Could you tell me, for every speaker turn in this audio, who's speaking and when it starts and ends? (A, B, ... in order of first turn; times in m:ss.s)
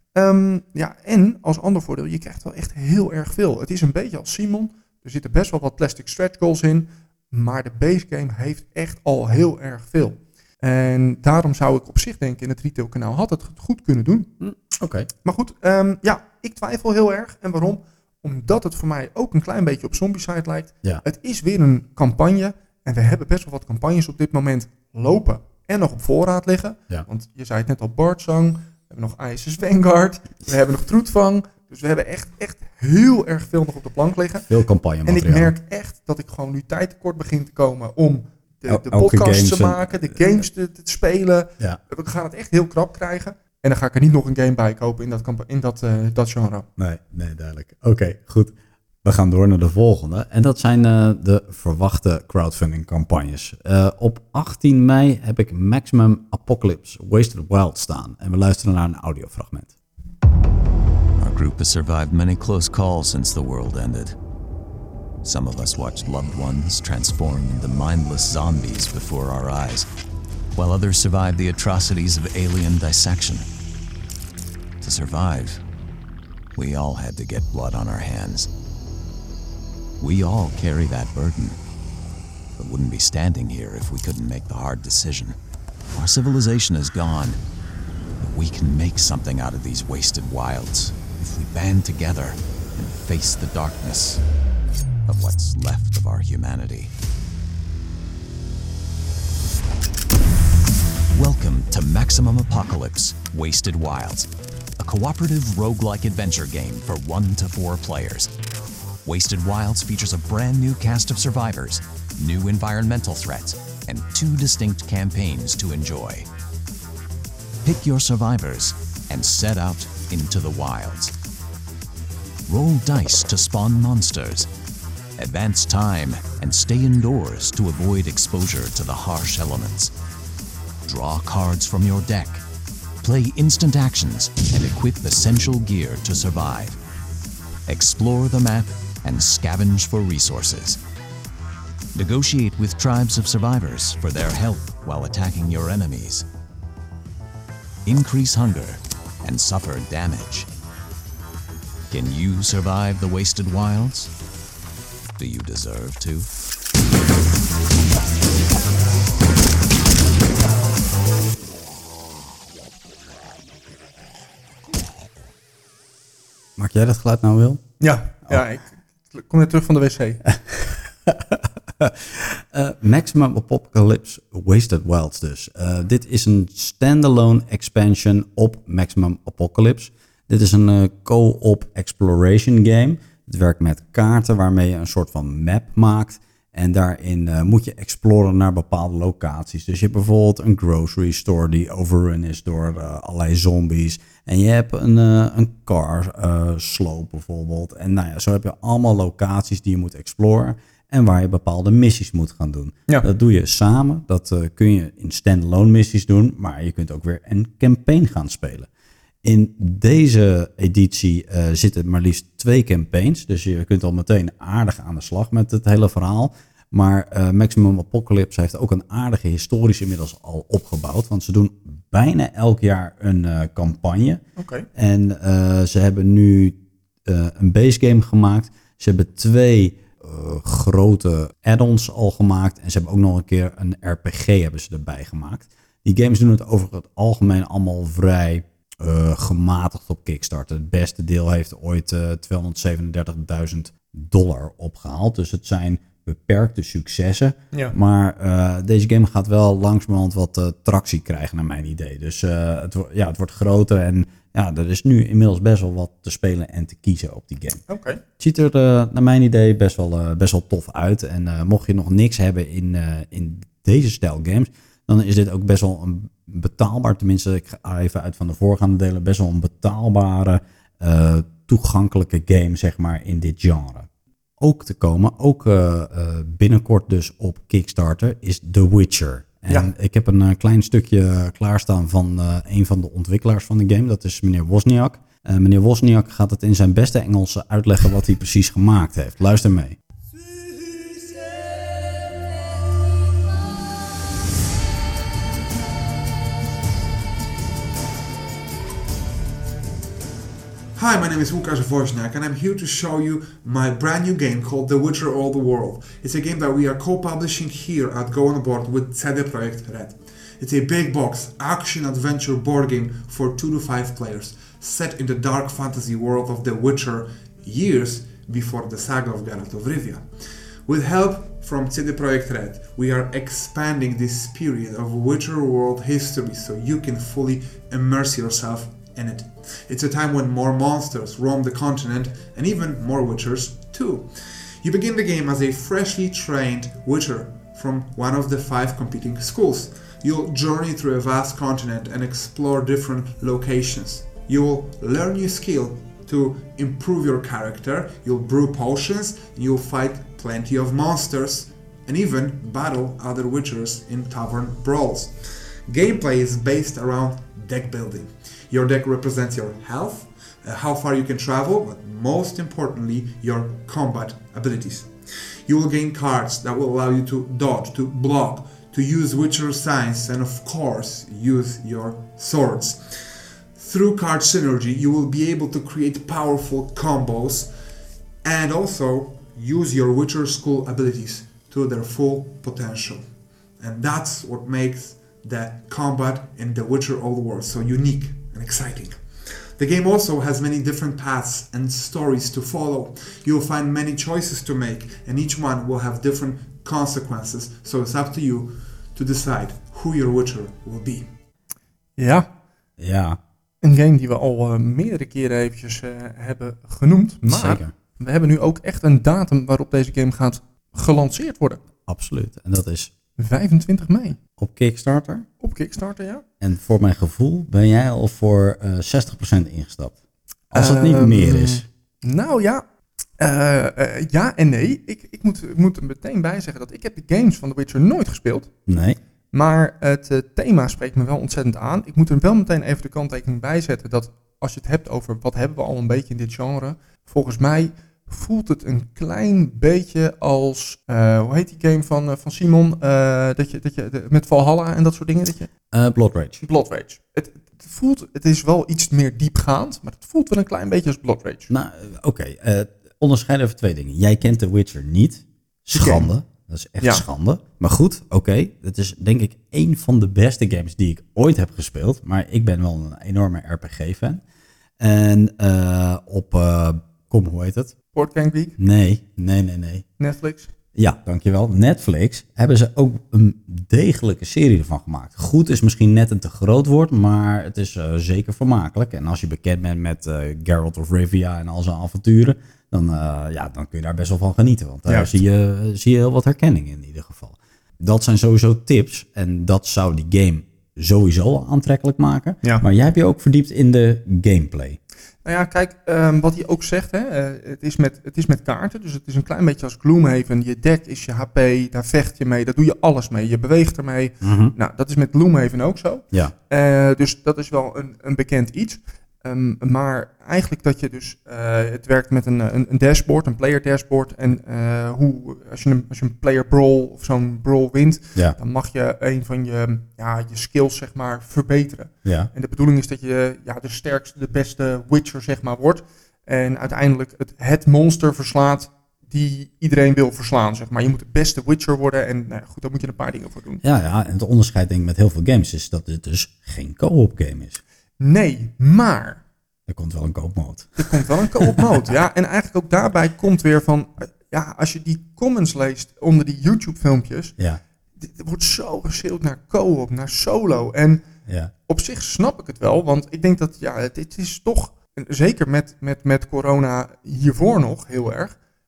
0:00.1-0:14.3 A
0:14.4-0:15.1 B
0:15.2-0:34.5 A
0:34.5-0:35.5 B
0:35.0-0:46.7 A
0:38.7-0:39.8 B
0:46.8-0:48.5 B
0:49.0-0:59.7 B
1:01.2-1:04.2 C
1:05.2-1:09.9 C
1:10.6-1:13.5 C
1:14.8-1:15.6 C
1:16.6-1:18.5 C
1:20.0-1:21.6 C
1:22.6-1:25.4 C
1:25.9-1:27.4 C
1:28.2-1:34.2 C
1:35.1-1:36.9 C
1:41.2-1:44.3 C
1:44.8-1:48.3 C
1:49.0-1:56.3 C
1:57.6-2:01.1 C
2:02.5-2:04.5 C
2:05.2-2:09.9 C
2:10.8-2:12.4 C
2:13.0-2:16.8 C
2:17.7-2:20.8 C
2:22.0-2:26.2 C
2:27.9-2:30.5 C
2:31.9-2:34.1 C
2:35.2-2:36.3 C
2:46.6-2:47.6 B
2:47.8-2:50.2 A
2:50.3-3:28.7 B
3:29.2-3:44.2 B
3:44.4-3:44.7 A
3:44.7-4:17.6 B
4:17.7-4:18.0 A
4:18.2-4:33.9 B
4:34.4-4:49.8 B
5:00.8-6:17.5 D
6:18.2-6:41.1 D
6:42.0-6:42.3 A
6:42.8-6:43.2 B
6:43.6-6:51.6 A
6:47.3-6:47.7 B
6:51.9-6:52.9 B
6:53.2-6:54.2 A
6:54.4-6:55.3 B
6:55.4-6:56.2 A
6:56.4-7:00.0 B
7:00.5-7:01.6 B
7:00.5-7:02.6 A
7:03.2-7:08.5 A
7:08.7-7:09.0 B
7:09.3-7:25.5 A
7:25.7-7:26.4 B
7:26.4-7:31.5 A
7:31.5-7:44.2 B
7:35.7-7:36.1 A
7:44.8-7:47.8 B
7:47.9-7:48.6 A
7:48.6-7:49.8 B
7:50.0-7:50.5 A
7:50.8-8:14.8 B
8:04.9-8:05.1 A
8:15.2-8:53.6 A
8:24.2-8:24.5 B
8:42.0-8:42.3 B
8:53.6-8:57.6 B
8:58.0-8:59.2 A
8:59.7-9:01.7 B
9:00.8-9:07.3 A
9:08.0-9:11.0 A
9:11.3-9:11.5 B
9:11.7-9:18.4 A